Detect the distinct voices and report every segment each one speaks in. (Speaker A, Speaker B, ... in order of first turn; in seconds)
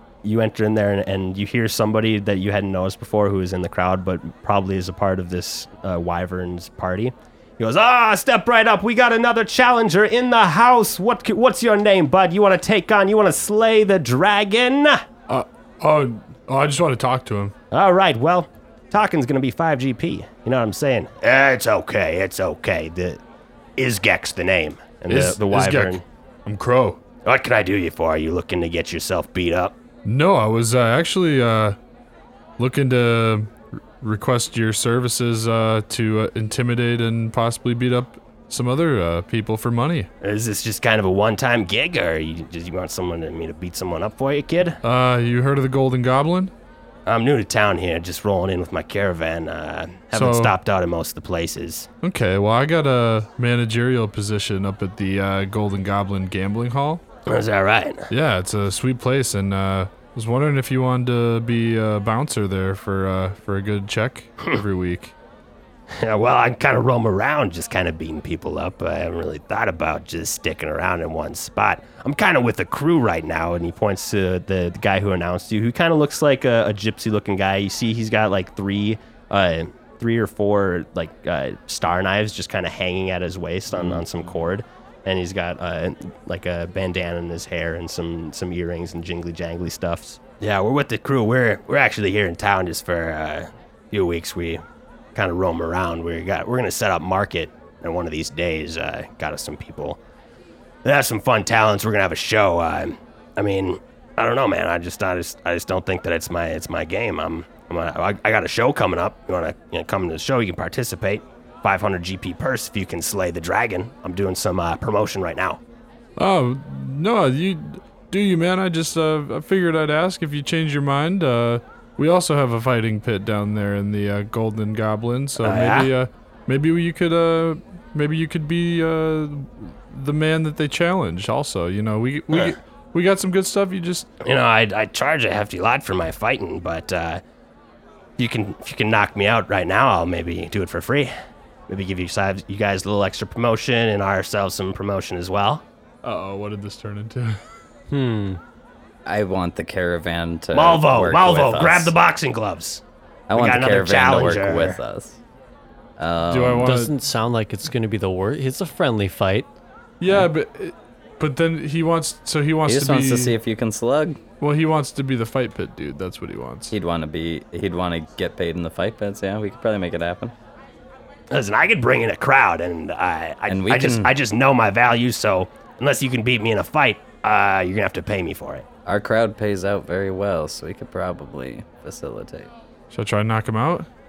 Speaker A: 0.2-15.0, 17.7-23.2, 23.8-26.0, 27.2-29.8, 40.2-44.8, 47.0-51.9, 57.3-58.1, 65.9-94.6, 95.1-100.0, 100.8-115.6, 125.4-125.9, 134.2-137.2, 138.2-141.1, 141.7-145.6, 150.5-152.8, 153.3-154.8, 171.3-178.6
Speaker B: 15.3-17.5, 25.1-27.0, 30.0-31.8, 32.6-40.1, 44.8-46.5, 50.1-50.5, 52.0-57.0, 58.1-65.1, 83.7-84.0, 116.2-134.1, 146.0-147.4, 156.3-156.9, 160.0-163.3, 164.4-166.7, 182.9-183.9
Speaker C: 147.9-148.4, 156.6-159.5
Speaker D: 149.1-151.9, 153.3-155.2, 156.0-156.7, 162.7-164.2, 166.7-170.3, 173.5-174.1, 178.8-182.5